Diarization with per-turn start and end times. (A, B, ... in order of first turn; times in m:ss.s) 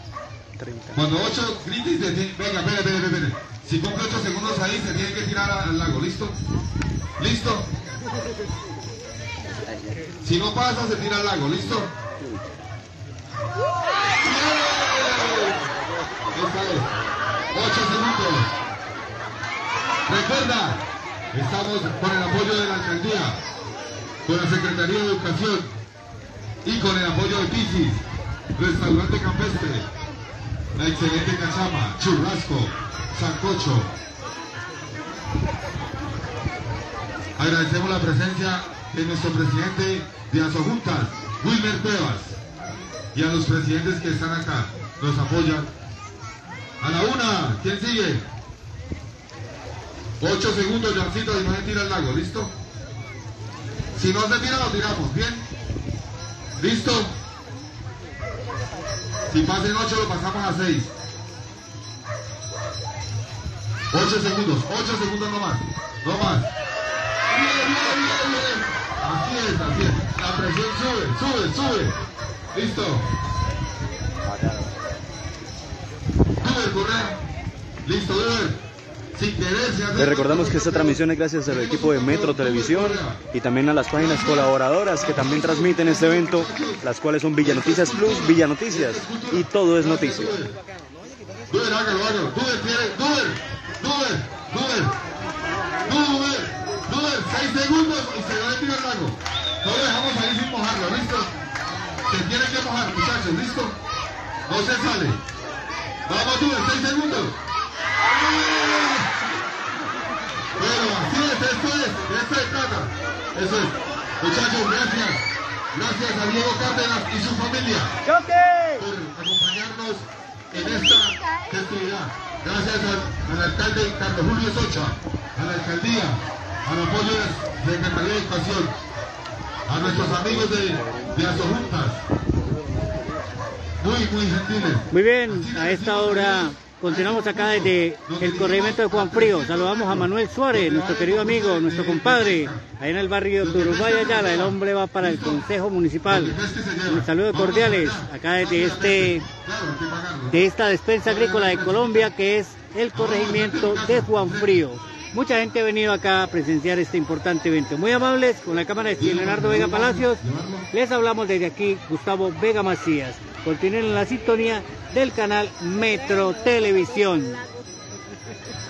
0:00.6-0:01.0 A
0:00.9-0:06.4 B
0:07.2-0:07.7 B
0:10.2-0:11.9 B
0:14.2-0:15.6 B
0:16.3-0:16.9 B
0:17.5-0:18.5 B
0:20.1-0:23.4 B
0:24.2-0:25.7 B
0:26.6-0:28.0 B
0:28.6-0:29.9 B
0:30.8-0:33.9 B
0:37.4-0:42.4 B
0:43.1-0:45.7 B
0:46.8-0:48.3 B
0:50.2-0:52.5 B
0:53.9-0:55.4 B
0:56.6-0:57.1 B
0:59.3-1:00.9 B
1:03.9-1:06.5 B
1:07.2-1:12.0 B
1:12.5-1:13.1 B
1:16.4-1:17.2 B
1:17.8-1:18.6 B
1:19.1-1:23.2 B
1:20.0-1:30.4 A
1:23.9-1:26.8 B
1:27.4-1:30.6 B
1:31.5-1:34.9 B
1:35.8-1:41.3 B
1:42.1-1:43.8 B
1:44.4-1:45.2 B
1:46.1-1:47.4 B
1:48.3-1:49.1 B
1:50.6-1:58.0 B
1:58.8-2:08.8 B
2:09.6-2:12.0 B
2:13.8-2:22.6 B
2:14.9-2:29.2 C
2:23.4-2:25.5 B
2:26.0-2:30.4 B
2:30.3-2:47.4 C
2:31.0-2:32.1 B
2:32.9-2:34.6 B
2:39.0-2:40.7 B